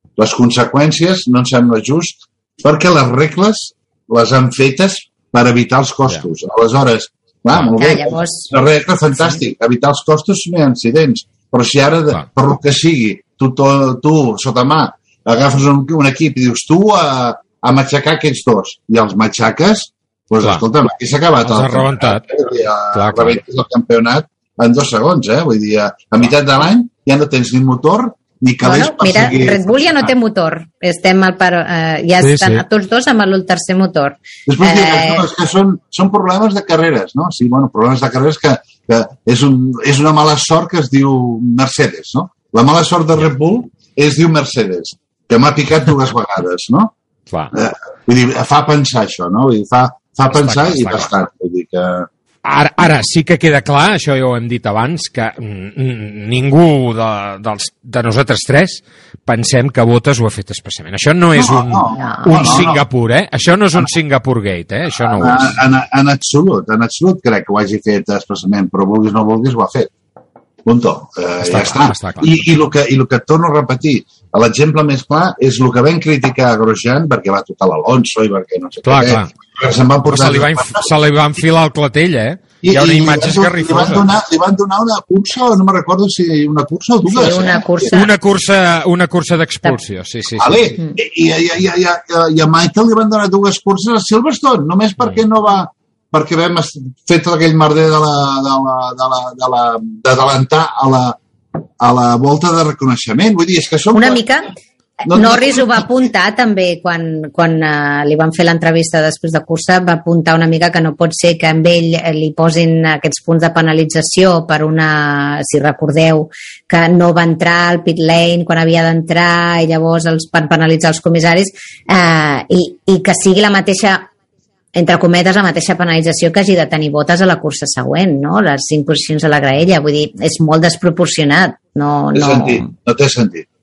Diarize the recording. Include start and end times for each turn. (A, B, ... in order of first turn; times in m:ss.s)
0:00.2-0:29.9 A
0:07.8-0:08.5 B
0:21.4-0:22.3 C
0:22.9-0:23.4 C
0:28.6-0:35.2 B
0:32.2-0:32.6 C
0:34.5-0:46.9 A
0:47.5-0:52.1 A
0:50.3-0:51.1 C
0:52.4-1:05.6 C
1:01.4-1:02.8 A
1:02.0-1:02.6 B
1:05.0-1:09.9 A
1:10.6-1:20.9 A
1:11.4-1:12.4 C
1:18.8-1:19.3 C
1:20.1-1:24.1 C
1:22.6-1:27.9 A
1:27.1-1:28.1 B
1:27.9-1:30.7 C
1:30.4-1:41.2 A
1:41.8-1:44.3 A
1:43.9-1:44.5 B
1:45.0-2:04.1 B
1:45.1-1:45.9 A
2:04.8-2:12.6 B
2:12.1-2:13.5 A